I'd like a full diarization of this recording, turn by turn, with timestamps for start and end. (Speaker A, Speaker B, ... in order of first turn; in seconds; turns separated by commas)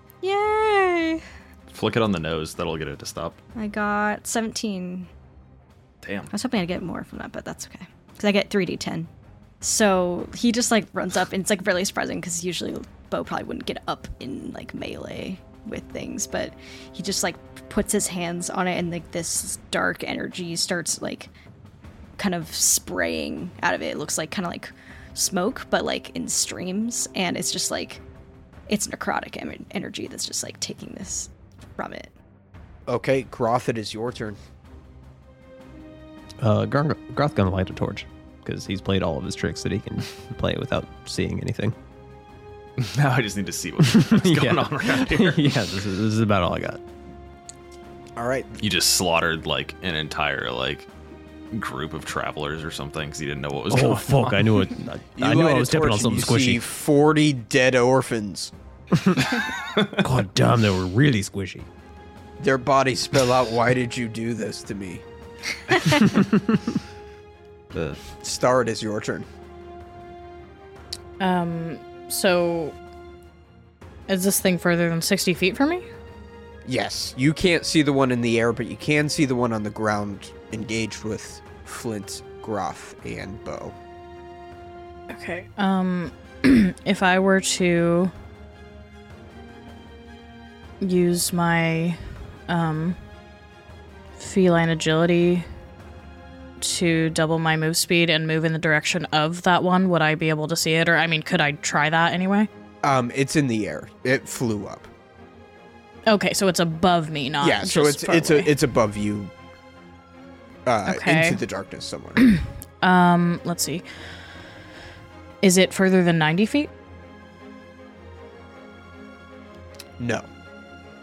Speaker A: 0.2-1.2, Speaker B: 1.7-3.4, Speaker A: 3.6-5.1, Speaker B: 6.0-6.3, Speaker A: 6.3-9.1, Speaker A: 9.6-21.3, Speaker A: 22.2-28.0, Speaker A: 28.7-32.1, Speaker C: 32.9-34.4, Speaker D: 36.4-41.8, Speaker B: 42.8-45.6, Speaker D: 43.8-46.8, Speaker C: 48.2-48.6, Speaker B: 48.6-50.9, Speaker B: 51.5-54.5, Speaker D: 53.7-56.6, Speaker C: 55.2-58.5, Speaker D: 59.0-61.7, Speaker C: 62.4-65.0, Speaker B: 67.7-68.0, Speaker C: 68.1-69.3, Speaker E: 71.2-72.8, Speaker E: 74.1-75.9, Speaker C: 76.7-83.8, Speaker E: 85.1-88.1, Speaker E: 90.8-93.0, Speaker E: 94.2-95.5, Speaker E: 96.6-102.5, Speaker C: 102.8-104.9, Speaker E: 106.1-108.5, Speaker C: 107.4-109.3, Speaker C: 110.7-112.2, Speaker E: 110.8-111.4, Speaker E: 112.2-113.8, Speaker E: 115.4-116.7, Speaker C: 120.0-120.3